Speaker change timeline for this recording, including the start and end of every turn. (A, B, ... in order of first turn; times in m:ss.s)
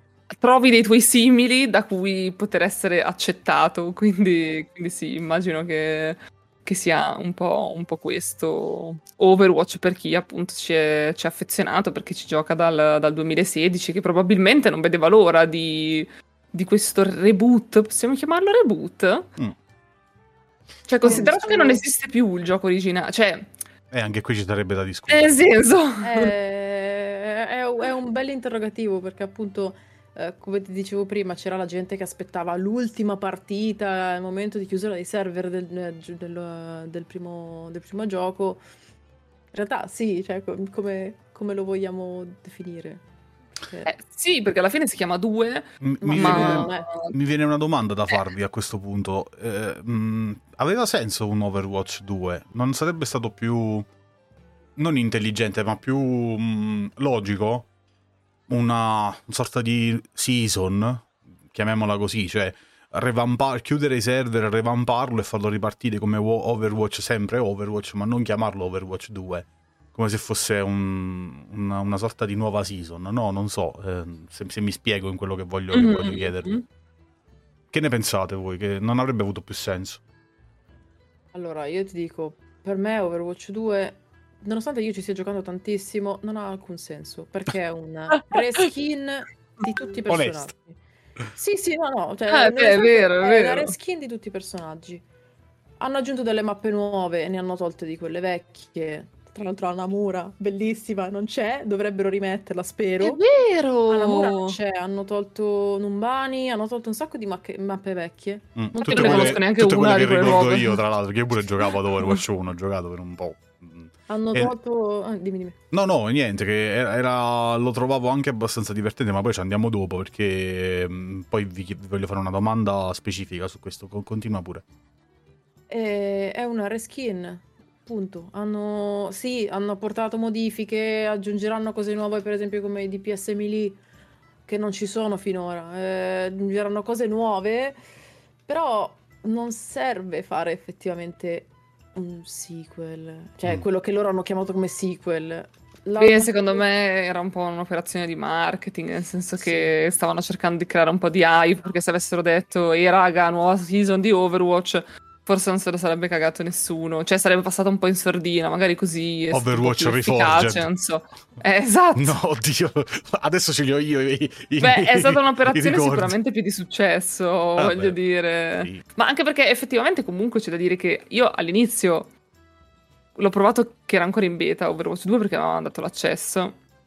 0:00.3-0:19.3 A
0:20.9-0:23.5 A
0:21.0-0:21.8 B
0:23.9-0:25.6 C
0:25.1-0:26.3 A
0:26.0-0:38.6 B
0:39.5-0:43.0 B
0:43.6-0:43.9 B
0:43.8-0:47.1 A
0:45.8-0:53.9 C
0:46.0-0:46.9 B
0:54.8-0:57.7 C
0:58.5-1:16.6 C
1:15.7-1:16.6 A
1:17.7-1:20.0 C
1:21.3-1:30.8 B
1:28.2-1:28.6 A
1:30.1-1:30.5 C
1:31.3-1:35.0 B
1:32.3-1:33.7 A
1:35.8-1:43.2 B
1:43.0-1:44.6 A
1:43.9-1:49.4 B
1:48.6-1:54.5 C
1:48.8-1:50.8 A
1:54.1-1:55.6 B
1:55.7-2:04.6 C
2:05.7-2:13.8 B
2:14.5-2:17.8 B
2:18.5-2:26.6 B
2:26.0-2:42.2 A
2:29.4-2:29.7 B
2:39.3-2:40.7 C
2:41.9-2:46.1 C
2:44.6-2:52.1 A
2:47.6-2:48.0 C
2:48.6-2:48.8 C
2:53.2-2:56.6 A